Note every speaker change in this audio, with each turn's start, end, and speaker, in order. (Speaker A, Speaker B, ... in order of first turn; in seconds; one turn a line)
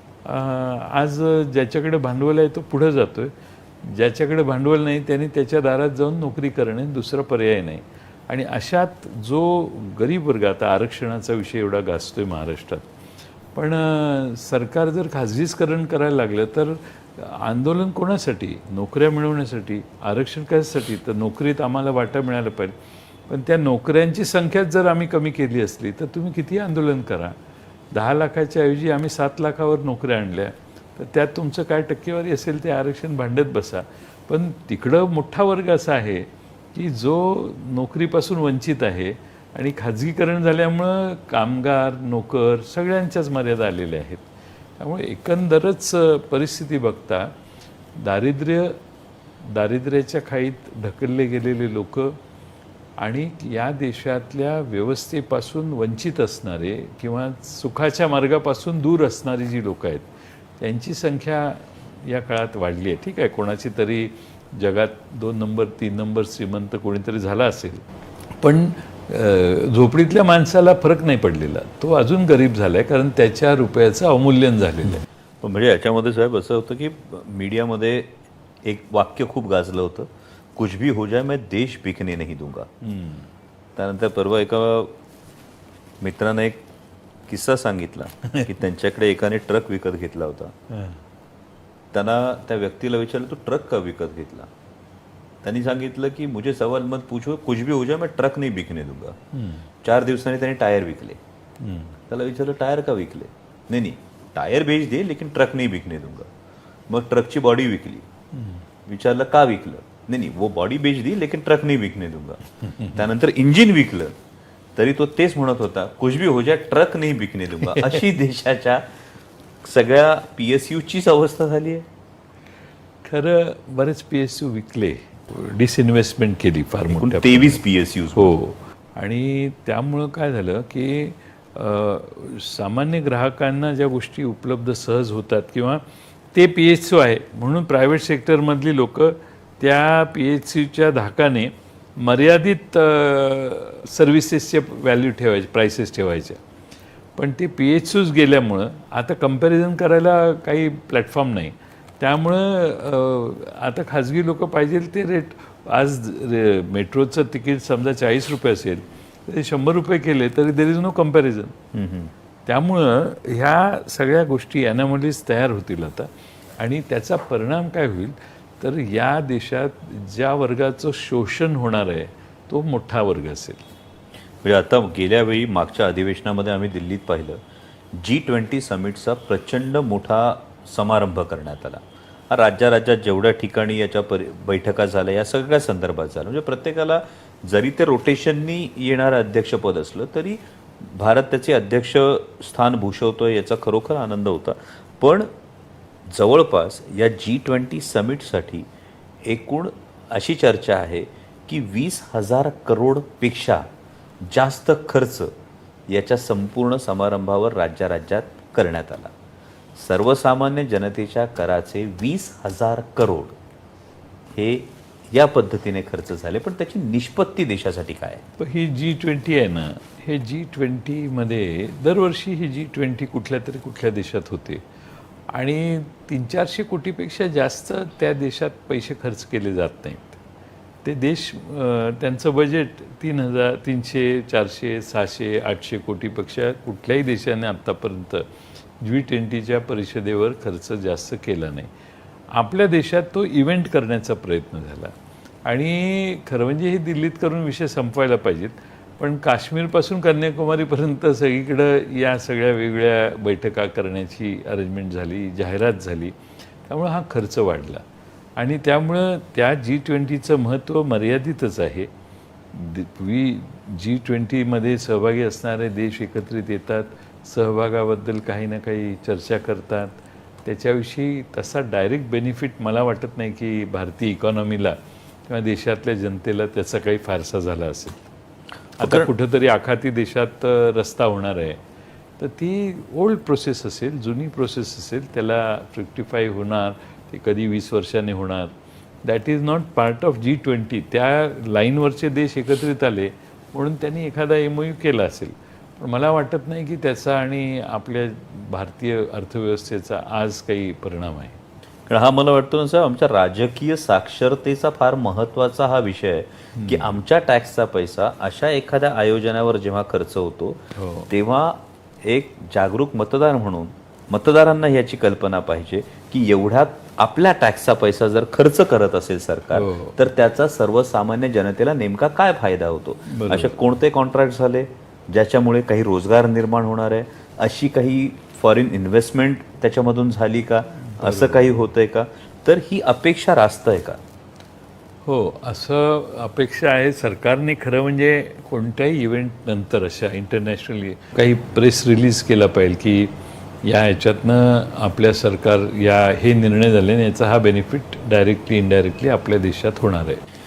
Speaker A: 0.2-12.9
Speaker A: 13.6-22.8
Speaker A: 23.3-27.3
Speaker A: 27.9-44.2
Speaker A: 44.8-47.3
Speaker A: 48.0-48.8
Speaker A: 49.4-52.2
Speaker A: 53.0-60.1
Speaker A: 60.6-67.8
Speaker A: 68.4-75.0
Speaker B: 75.4-78.1
Speaker B: 78.6-82.7
Speaker A: 82.8-83.3
Speaker B: 83.8-85.0
Speaker B: 86.0-86.6
Speaker B: 87.3-90.5
Speaker A: 90.7-91.0
Speaker B: 91.9-94.5
Speaker B: 95.4-99.2
Speaker A: 99.3-99.7
Speaker B: 99.8-101.2
Speaker A: 101.6-102.0
Speaker B: 102.1-106.3
Speaker B: 106.9-108.1
Speaker A: 108.3-108.6
Speaker B: 108.9-112.4
Speaker A: 112.7-113.0
Speaker B: 112.9-114.2
Speaker B: 114.8-118.8
Speaker A: 117.7-118.0
Speaker B: 119.6-121.9
Speaker A: 123.0-127.6
Speaker B: 126.9-128.4
Speaker A: 128.2-146.4
Speaker A: 147.2-161.6
Speaker B: 161.7-162.1
Speaker A: 162.5-173.6
Speaker B: 174.4-177.4
Speaker B: 177.9-195.3
Speaker B: 196.1-198.7
Speaker B: 199.3-203.7
Speaker B: 204.2-205.3
Speaker B: 205.9-209.1
Speaker B: 209.8-213.4
Speaker B: 214.3-218.2
Speaker A: 218.4-224.6
Speaker A: 225.3-230.2
Speaker A: 230.8-238.3
Speaker A: 238.8-241.7
Speaker A: 242.3-244.9
Speaker A: 245.4-257.8
Speaker A: 258.4-261.9
Speaker A: 262.5-274.8
Speaker A: 275.3-278.0
Speaker A: 278.8-281.6
Speaker B: 278.8-279.1
Speaker A: 282.2-288.5
Speaker A: 289.0-301.4
Speaker B: 301.9-334.0
Speaker A: 306.6-307.0
Speaker A: 310.8-311.1
Speaker A: 319.5-320.0
Speaker A: 323.1-323.6
Speaker A: 331.0-331.6
Speaker A: 335.1-343.1
Speaker A: 343.6-350.2